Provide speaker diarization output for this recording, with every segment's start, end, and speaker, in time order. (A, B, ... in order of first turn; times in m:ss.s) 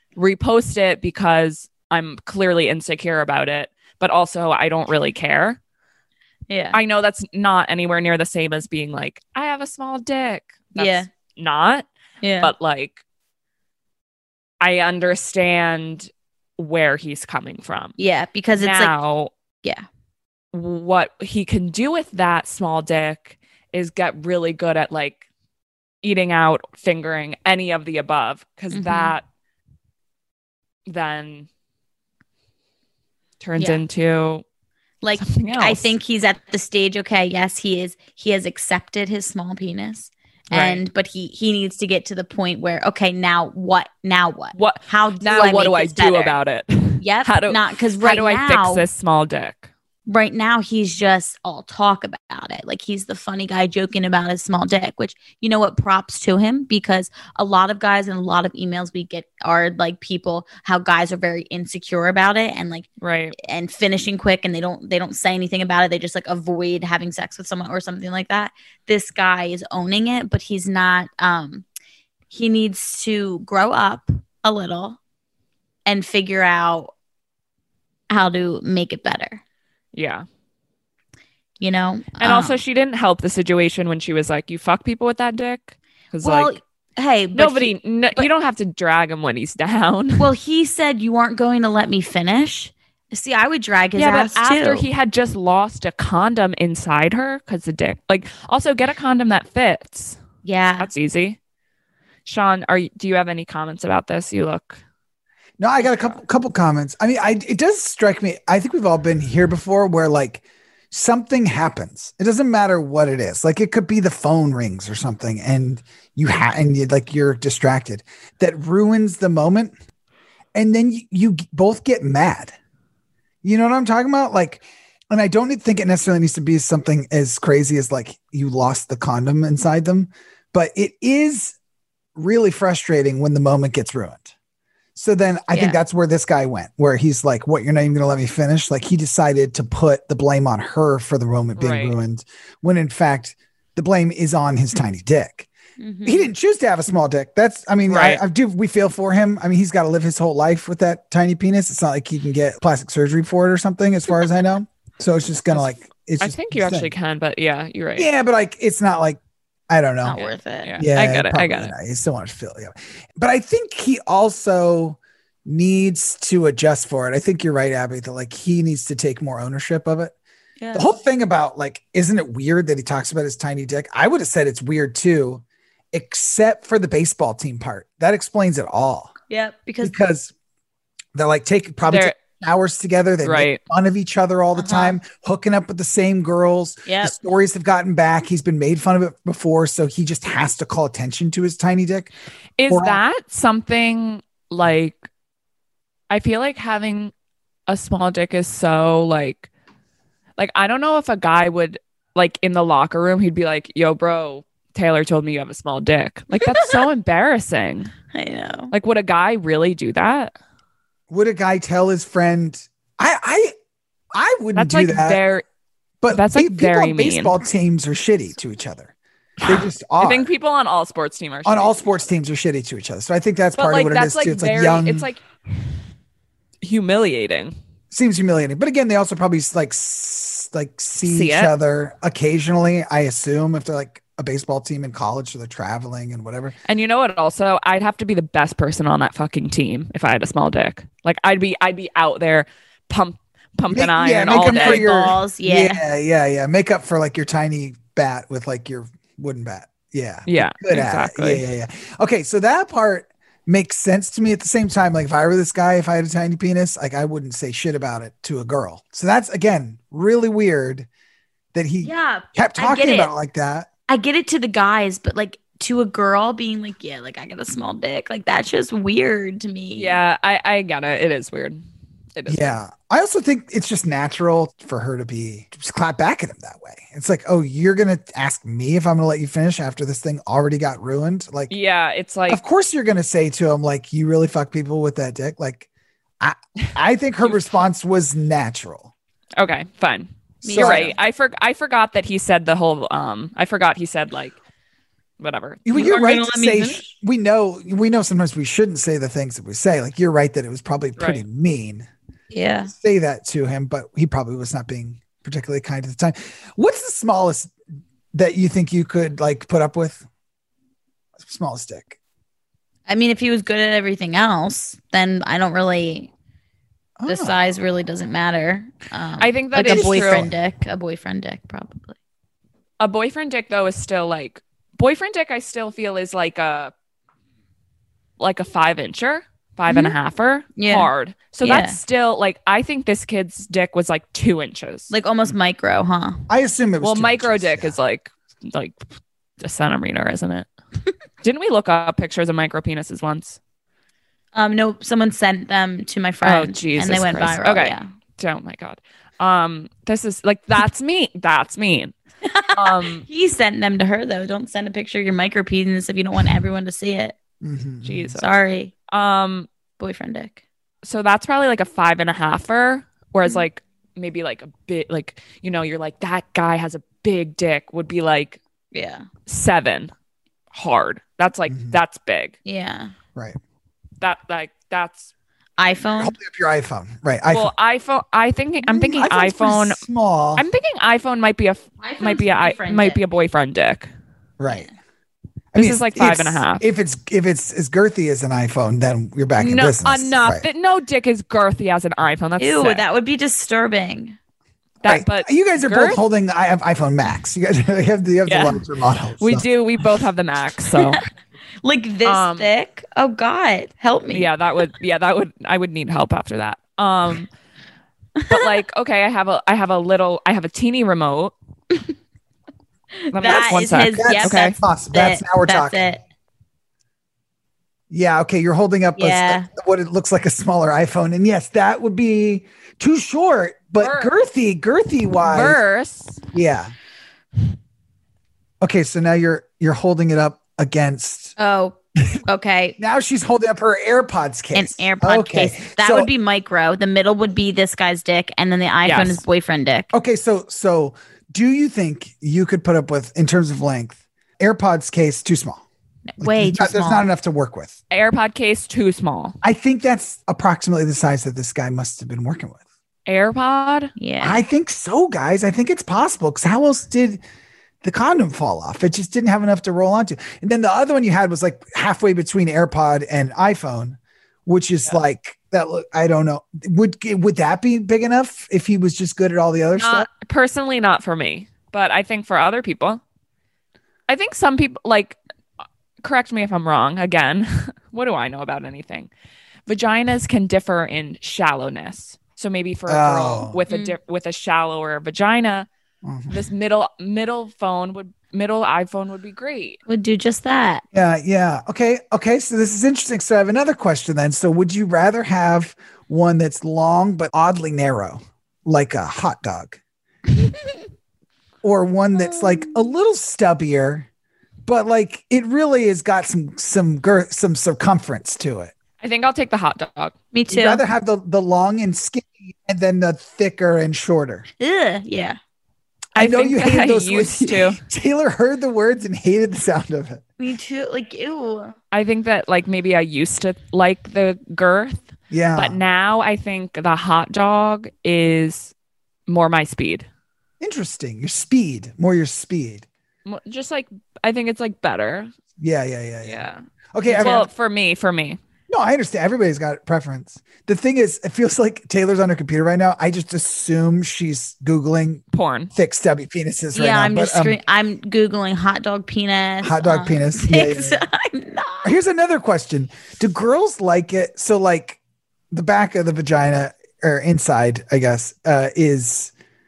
0:00.2-0:05.6 A
0:06.5-0:06.8 B
0:06.7-0:11.9 A
0:10.8-0:11.1 B
0:12.2-0:12.5 B
0:12.4-0:13.0 A
0:14.6-0:18.0 A
0:18.0-0:18.9 B
0:18.6-0:19.3 A
0:20.5-0:25.2 A
0:26.0-0:29.2 A
0:28.7-0:29.2 B
0:30.9-0:31.5 A
0:33.4-0:34.4 A
0:33.6-0:33.8 B
0:35.0-0:46.4 B
0:35.2-0:35.9 A
0:40.5-0:40.8 A
0:44.5-0:49.7 A
0:47.0-0:48.9 B
0:50.1-1:02.9 B
1:03.0-1:03.4 A
1:03.4-1:11.6 B
1:12.3-1:15.0 B
1:15.9-1:16.9 B
1:18.1-1:19.4 B
1:19.9-1:20.2 A
1:21.6-1:22.6 B
1:22.2-1:26.5 A
1:26.2-1:28.3 B
1:27.3-1:30.3 A
1:30.2-1:34.9 B
1:34.0-1:40.2 A
1:40.4-1:40.9 B
1:40.8-1:41.4 A
1:42.3-1:44.8 A
1:45.6-1:59.7 C
1:45.8-1:46.2 A
2:00.5-2:02.6 C
2:03.4-2:11.6 C
2:12.2-2:14.3 C
2:15.0-2:25.5 C
2:15.5-2:15.8 B
2:21.6-2:22.0 A
2:25.8-2:26.3 B
2:26.0-2:36.9 C
2:27.9-2:28.2 A
2:36.2-2:38.1 A
2:38.0-2:40.2 C
2:40.0-2:40.7 B
2:40.2-2:41.7 A
2:40.8-2:50.1 C
2:50.6-2:50.9 B
2:50.7-2:59.1 C
2:59.3-2:59.9 B
2:59.8-3:00.3 C
3:01.2-3:12.1 C
3:01.8-3:02.2 A
3:03.2-3:03.6 A
3:04.6-3:05.0 B
3:06.9-3:07.2 B
3:12.6-3:15.0 A
3:12.7-3:13.0 C
3:16.1-3:17.1 A
3:17.7-3:19.5 A
3:20.4-3:27.9 A
3:26.4-3:26.7 B
3:28.1-3:28.7 B
3:28.7-3:30.4 A
3:31.1-3:33.6 C
3:34.1-3:35.2 C
3:34.6-3:35.4 A
3:36.0-3:40.3 C
3:36.1-3:37.4 A
3:39.4-3:42.1 A
3:41.4-3:45.1 C
3:43.6-3:45.2 A
3:46.6-3:47.6 A
3:47.9-3:56.6 C
3:51.0-3:51.5 A
3:56.7-4:04.9 A
4:03.7-4:20.9 C
4:04.3-4:05.8 B
4:10.3-4:11.4 A
4:21.5-4:23.7 C
4:21.8-4:23.1 B
4:23.9-4:30.0 B
4:29.8-4:31.6 A
4:32.2-4:32.6 A
4:32.3-4:41.5 C
4:41.5-4:42.4 A
4:42.3-4:45.7 C
4:46.2-4:48.9 C
4:47.2-4:47.5 A
4:49.4-4:54.4 A
4:50.4-4:51.0 B
4:50.5-4:50.9 C
4:55.2-4:55.6 A
4:55.6-5:01.9 C
4:55.7-4:56.9 B
5:01.0-5:01.2 A
5:02.3-5:02.7 B
5:02.7-5:07.5 C
5:08.1-5:10.0 C
5:11.2-5:12.0 C
5:12.9-5:16.1 B
5:17.0-5:17.4 C
5:17.1-5:22.0 B
5:19.2-5:20.3 A
5:19.6-5:20.3 C
5:22.8-5:26.7 A
5:28.2-5:34.9 A
5:29.7-5:30.0 B
5:30.6-5:30.9 B
5:31.4-5:31.8 B
5:34.9-5:36.2 B
5:36.3-5:37.8 C
5:36.8-5:38.8 A
5:39.4-5:40.5 A
5:41.2-5:43.4 A
5:44.3-5:47.9 B
5:46.2-5:51.9 A
5:52.2-5:57.2 B
5:52.6-5:53.0 A
5:57.4-5:58.2 C
5:57.8-5:58.3 A
5:58.2-5:58.7 B
5:58.9-5:59.5 A
5:59.8-6:00.4 B
6:00.8-6:08.4 A
6:08.7-6:09.0 B
6:09.3-6:09.9 A
6:10.5-6:12.4 A
6:11.5-6:11.8 C
6:12.4-6:12.9 B
6:14.0-6:15.1 A
6:15.6-6:16.2 B
6:16.0-6:17.5 C
6:17.3-6:19.8 A
6:18.6-6:20.4 C
6:20.4-6:23.9 A
6:21.8-6:23.0 B
6:24.4-6:24.7 C
6:25.5-6:30.5 C
6:25.6-6:26.6 A
6:29.4-6:32.8 A
6:32.4-6:34.2 B
6:34.8-6:36.0 A
6:34.8-6:39.5 C
6:38.3-6:38.6 A
6:39.2-6:41.0 A
6:41.6-6:44.3 B
6:42.0-6:42.5 A
6:44.1-6:47.3 A
6:48.3-6:51.3 A
6:53.0-6:56.0 B
6:53.1-6:54.6 A
6:53.2-6:55.9 C
6:57.9-7:05.6 C
6:59.0-6:59.5 B
7:03.8-7:04.2 A
7:05.2-7:06.2 A
7:06.3-7:06.7 C
7:08.6-7:11.4 C
7:11.4-7:12.8 B
7:12.8-7:16.1 C
7:14.5-7:19.9 B
7:18.8-7:19.2 A
7:19.9-7:25.6 C
7:26.1-7:27.0 B
7:26.2-7:27.8 C
7:27.9-7:29.4 A
7:29.4-7:32.6 C
7:33.1-7:33.9 A
7:34.0-7:34.4 B
7:34.2-7:37.2 C
7:37.8-7:50.1 C
7:49.8-7:53.0 A
7:54.1-7:55.2 A
7:56.0-7:59.1 A
7:59.7-8:05.7 A
8:02.9-8:03.6 C
8:03.7-8:04.0 B
8:06.0-8:06.4 C
8:06.3-8:09.8 A
8:09.9-8:10.8 B
8:10.9-8:19.8 C
8:21.6-8:24.1 C
8:24.7-8:28.7 C
8:29.0-8:30.2 A
8:30.3-8:30.8 B
8:30.5-8:34.5 C
8:34.6-8:35.4 B
8:36.2-8:40.2 C
8:36.2-8:37.8 A
8:40.4-8:41.8 B
8:41.9-8:48.7 A
8:45.3-8:45.8 C
8:49.3-8:50.1 A
8:50.6-8:52.9 C
8:53.3-8:55.3 A
8:55.6-8:57.5 C
8:56.2-8:58.4 A
8:58.7-9:07.6 C
9:05.3-9:05.7 A
9:06.7-9:11.9 B
9:09.6-9:11.0 C
9:11.8-9:15.0 C
9:15.5-9:19.3 C